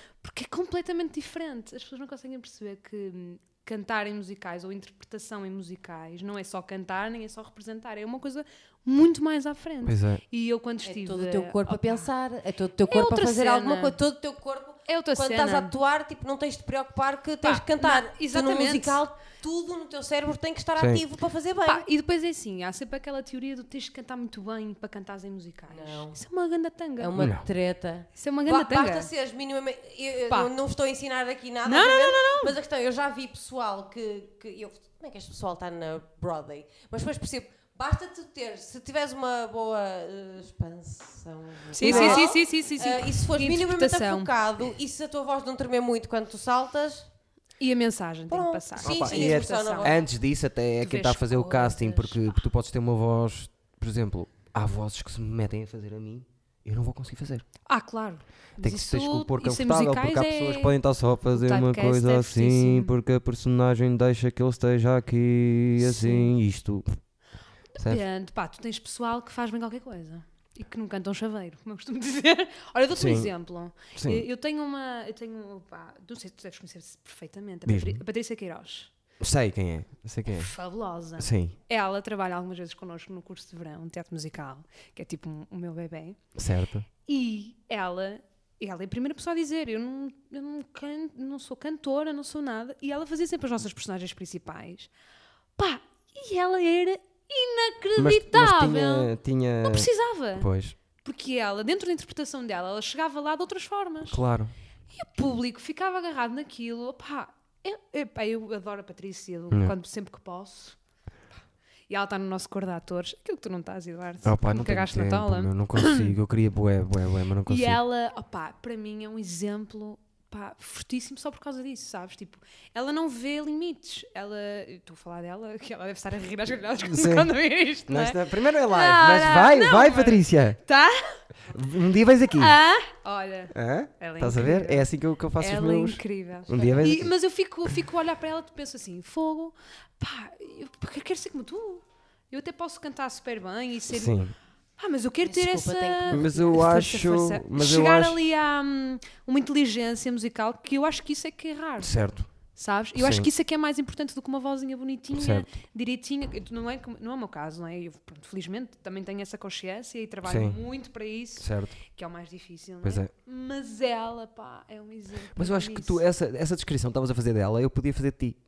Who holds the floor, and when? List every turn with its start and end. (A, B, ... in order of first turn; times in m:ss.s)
0:00.2-0:12.1 A
0:09.8-0:10.2 B
0:10.8-0:21.9 C
0:12.9-0:14.0 A
0:14.9-0:15.7 A
0:17.4-0:19.0 A
0:20.8-0:21.0 B
0:21.7-0:27.2 A
0:25.7-0:26.2 C
0:27.0-0:47.1 C
0:27.2-0:27.4 B
0:28.2-0:29.1 A
0:31.6-0:32.6 A
0:41.8-0:44.3 A
0:41.8-0:42.3 B
0:47.6-0:50.0 A
0:48.3-0:50.0 C
0:48.8-0:57.5 B
0:50.8-0:52.4 A
0:57.7-1:00.8 A
0:58.6-1:07.0 B
1:01.3-1:03.0 A
1:05.8-1:06.4 A
1:07.8-1:18.9 A
1:12.9-1:13.3 B
1:13.9-1:14.2 B
1:17.7-1:18.0 B
1:19.2-1:20.5 B
1:20.3-1:26.2 A
1:21.2-1:21.6 B
1:26.4-1:26.9 B
1:27.1-1:34.9 A
1:35.6-1:39.1 A
1:38.0-1:40.8 B
1:39.6-1:40.5 A
1:41.0-1:44.2 A
1:44.1-1:44.5 B
1:44.9-1:50.8 A
1:51.9-1:56.1 A
1:54.2-1:57.8 B
1:57.5-2:11.2 A
2:06.8-2:07.3 B
2:07.9-2:10.6 B
2:11.5-2:12.6 B
2:12.3-2:24.2 A
2:13.5-2:17.1 B
2:23.9-2:24.3 B
2:24.8-2:32.0 A
2:25.2-2:26.7 C
2:26.1-2:28.2 B
2:31.8-2:32.3 B
2:32.6-2:46.0 A
2:33.0-2:33.3 B
2:35.1-2:35.5 B
2:40.2-2:40.6 B
2:41.4-2:41.8 B
2:42.8-2:43.1 B
2:45.4-2:48.4 B